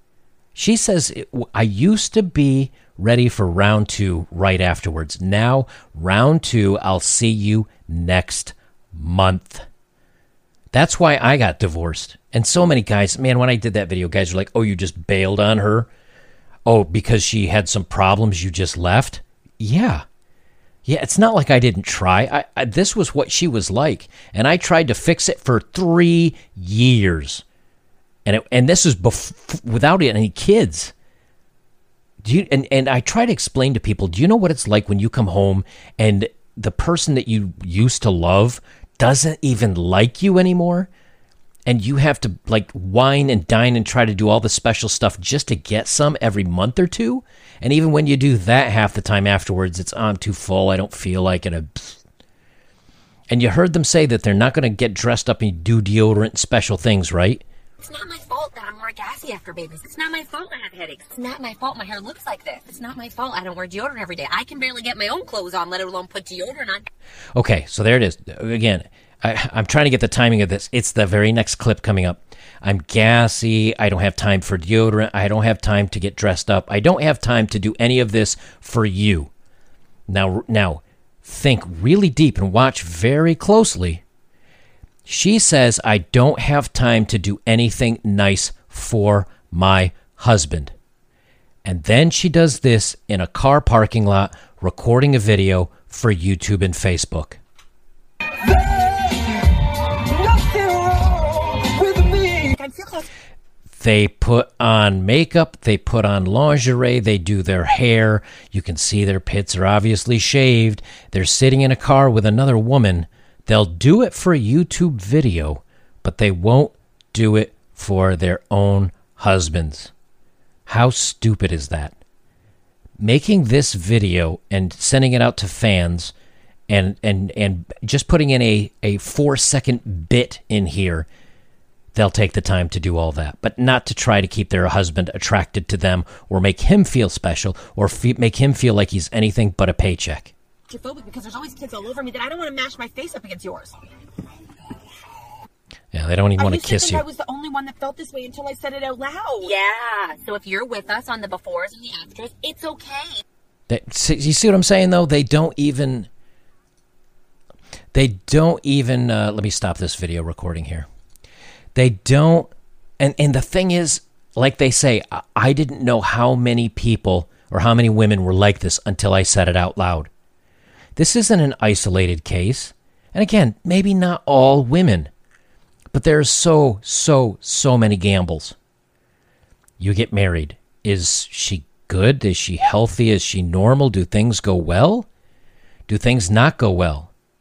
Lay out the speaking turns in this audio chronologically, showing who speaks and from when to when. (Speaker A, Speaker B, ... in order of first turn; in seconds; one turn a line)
Speaker A: 0.5-9.6
Speaker A: 10.7-15.9
Speaker A: 16.6-20.0
Speaker A: 20.9-27.4
Speaker A: 28.2-30.9
Speaker A: 32.2-40.9
Speaker A: 41.6-52.0
Speaker A: 53.3-57.4
Speaker B: 57.8-66.8
Speaker A: 67.3-79.3
Speaker A: 80.1-84.0
Speaker A: 85.0-90.7
Speaker A: 91.6-97.4
Speaker C: 98.5-99.2
Speaker C: 100.1-103.1
Speaker A: 103.8-119.9
Speaker A: 120.7-122.0
Speaker A: 123.0-126.1
Speaker A: 126.7-131.1
Speaker A: 131.9-140.3
Speaker C: 140.7-143.8
Speaker A: 145.9-147.0
Speaker C: 146.4-149.5
Speaker B: 149.4-153.2
Speaker A: 153.7-156.1
Speaker A: 157.9-160.9
Speaker A: 161.7-170.1
Speaker A: 170.9-175.1
Speaker A: 175.9-178.6
Speaker A: 179.8-185.1
Speaker A: 185.9-187.1